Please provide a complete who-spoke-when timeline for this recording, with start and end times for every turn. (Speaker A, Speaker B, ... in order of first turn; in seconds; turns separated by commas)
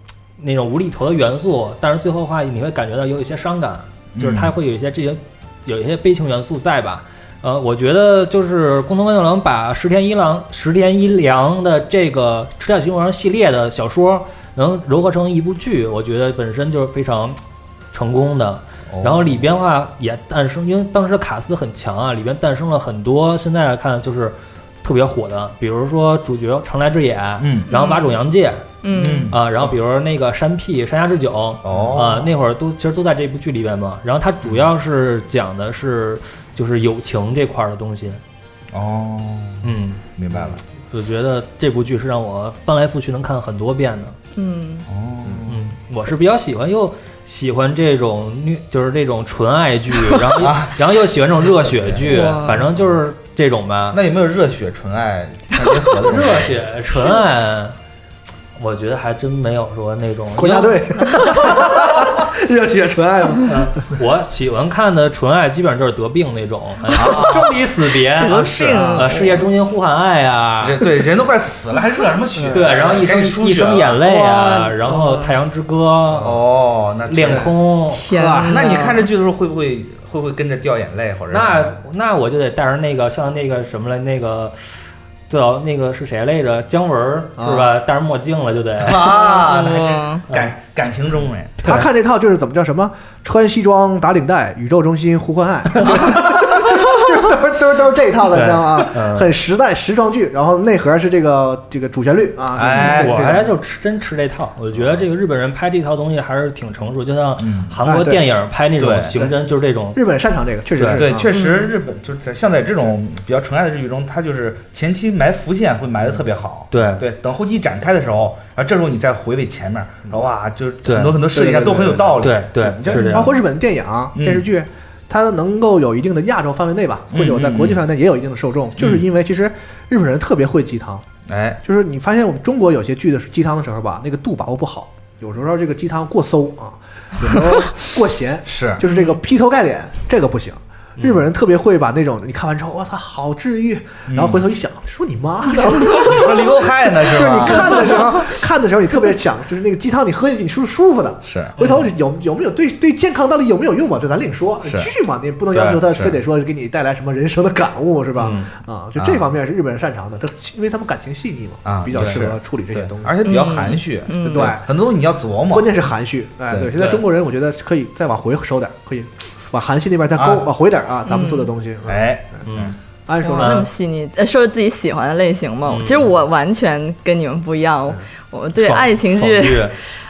Speaker A: 0.4-17.4, Speaker B: 4.2-4.5, Speaker A: 17.9-28.7, Speaker B: 18.9-19.4, Speaker B: 27.4-27.7, Speaker C: 27.7-28.1, Speaker C: 28.8-29.3, Speaker B: 28.9-29.7, Speaker A: 29.3-38.2, Speaker B: 31.6-32.3, Speaker B: 38.7-39.7, Speaker A: 39.6-40.0, Speaker B: 40.2-40.6, Speaker A: 40.9-44.1, Speaker C: 44.4-44.9, Speaker B: 44.9-45.6, Speaker A: 45.5-54.0, Speaker B: 50.3-50.9, Speaker B: 51.7-52.0, Speaker C: 52.0-52.7, Speaker B: 53.9-56.6, Speaker A: 56.1-57.8, Speaker A: 58.6-61.1, Speaker D: 60.4-63.6, Speaker A: 63.5-70.8, Speaker B: 66.9-67.6, Speaker C: 68.2-69.4, Speaker B: 68.7-69.1, Speaker B: 70.6-74.0, Speaker D: 72.4-72.7, Speaker A: 72.5-76.3, Speaker C: 74.1-75.3, Speaker D: 76.1-76.4, Speaker B: 76.2-77.5, Speaker A: 77.1-78.0, Speaker D: 77.2-77.5, Speaker C: 77.9-79.1, Speaker D: 78.1-78.7, Speaker B: 78.5-81.8, Speaker A: 81.3-84.6, Speaker A: 85.3-89.1, Speaker D: 87.4-87.7, Speaker B: 88.8-91.6, Speaker C: 89.0-90.2, Speaker D: 91.6-103.5, Speaker A: 98.3-99.3, Speaker B: 102.5-103.4, Speaker A: 102.8-110.0, Speaker B: 107.4-107.7, Speaker D: 107.8-108.3, Speaker B: 108.8-109.2, Speaker D: 109.9-111.4, Speaker A: 110.8-111.0, Speaker B: 110.9-123.3, Speaker C: 111.3-111.7, Speaker A: 116.7-117.0, Speaker A: 120.8-121.2, Speaker D: 121.3-131.1, Speaker A: 122.2-123.3, Speaker B: 124.2-124.5, Speaker B: 127.1-127.8, Speaker B: 131.3-131.6, Speaker D: 131.6-163.4, Speaker B: 137.2-137.6, Speaker B: 138.5-138.8, Speaker B: 144.1-144.4, Speaker B: 145.8-148.2, Speaker B: 151.2-151.5, Speaker A: 151.6-151.8, Speaker B: 155.5-156.2, Speaker A: 158.2-158.5, Speaker B: 161.7-165.8, Speaker A: 161.9-162.2, Speaker C: 163.2-164.5, Speaker D: 164.2-164.8, Speaker D: 165.5-172.4, Speaker B: 166.5-166.9, Speaker B: 170.2-170.5, Speaker C: 171.1-171.5, Speaker B: 171.9-172.8, Speaker A: 172.5-172.8, Speaker D: 173.1-173.7, Speaker C: 173.2-179.8, Speaker A: 173.4-173.7, Speaker A: 175.7-176.1, Speaker A: 178.6-179.8